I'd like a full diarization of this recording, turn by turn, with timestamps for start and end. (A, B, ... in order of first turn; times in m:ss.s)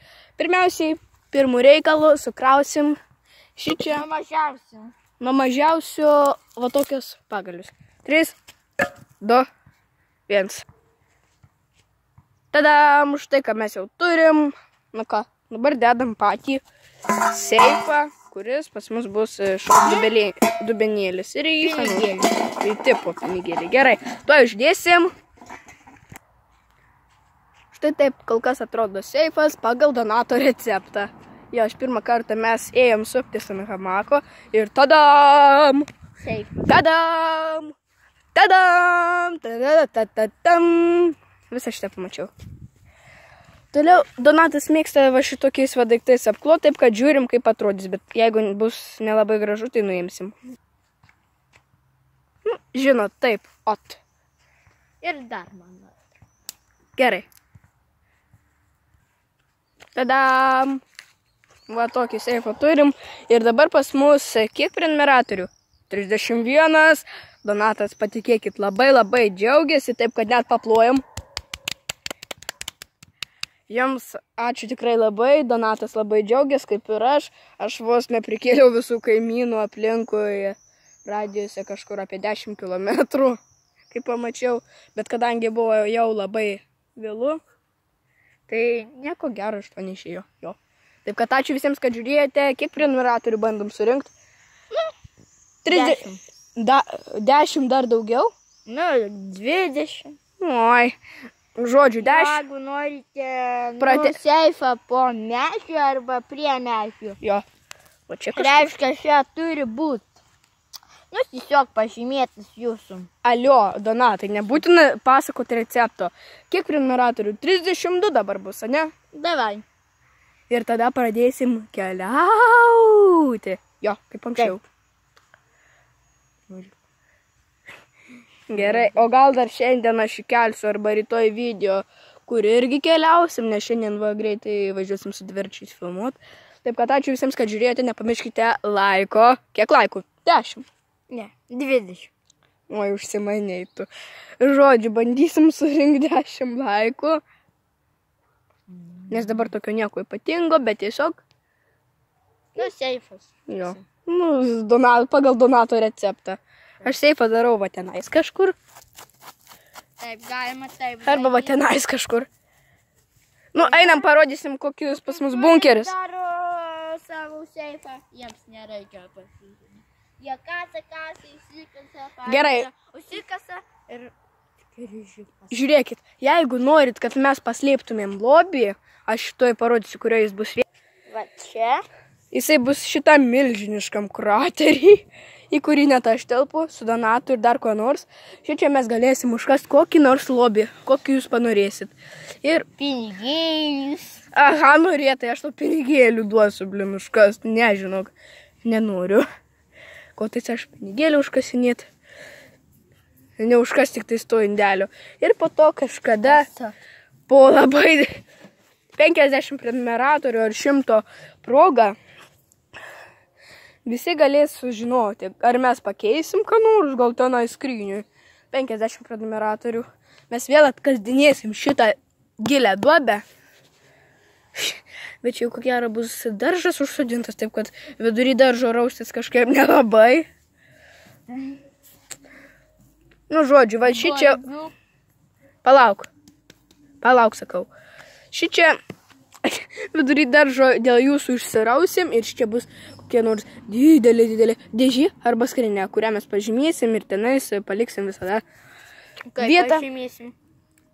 0:00.4-0:03.0 A
0:03.6-0:04.0 A
0:03.8-0:04.9 B
0:05.2-0:08.4 A
0:09.2-0:09.4 A
0:10.3-0:10.6 A
0:12.5-0:16.6 A
0:17.2-0:25.1 A
0:21.6-0:22.3 B
0:27.7-0:35.9 A
0:36.2-0:36.7 B
0:36.6-0:37.7 A
0:38.3-0:42.3 A
0:43.7-0:50.4 A
0:52.4-0:54.0 A
0:55.0-0:56.0 B
0:57.0-0:57.2 A
0:59.9-1:00.8 A
1:01.7-1:11.0 A
1:13.7-1:23.4 A
1:23.9-1:27.4 A
1:28.5-1:34.1 A
1:35.6-1:36.0 A
1:35.7-1:36.2 B
1:36.6-1:38.3 A
1:38.7-1:40.2 B
1:40.4-1:41.0 A
1:41.6-1:42.4 A
1:42.0-1:47.2 B
1:43.8-1:44.2 A
1:48.1-1:48.7 A
1:48.3-1:50.1 B
1:51.1-1:53.1 B
1:53.2-1:58.9 A
1:59.1-1:59.6 B
2:00.5-2:04.6 A
2:08.5-2:20.6 A
2:08.5-2:09.0 B
2:21.1-2:22.1 B
2:22.7-2:23.9 A
2:24.4-2:27.2 A
2:29.1-2:29.4 B
2:29.1-2:31.2 A
2:32.6-2:33.7 B
2:33.5-2:38.6 A
2:40.0-2:41.6 B
2:41.0-2:42.3 A
2:43.5-2:45.9 A
2:43.6-2:44.1 B
2:44.9-2:54.1 B
2:52.2-2:52.7 A
2:54.7-2:55.6 B
2:55.5-3:00.6 A
3:01.1-3:01.8 B
3:02.3-3:12.6 A
3:12.8-3:14.2 B
3:14.3-3:18.1 A
3:18.6-3:19.2 A
3:20.2-3:21.9 A
3:23.4-3:26.5 A
3:26.2-3:26.7 B
3:27.3-3:28.2 A
3:29.0-3:32.0 A
3:33.8-3:43.2 A
3:44.5-3:50.2 A
3:51.3-3:51.6 B
3:53.3-3:54.4 A
3:53.8-3:54.7 B
3:55.6-3:56.1 A
3:57.0-3:57.7 A
3:58.3-3:58.8 A
3:59.4-4:08.4 A
4:09.3-4:10.3 B
4:09.4-4:09.8 A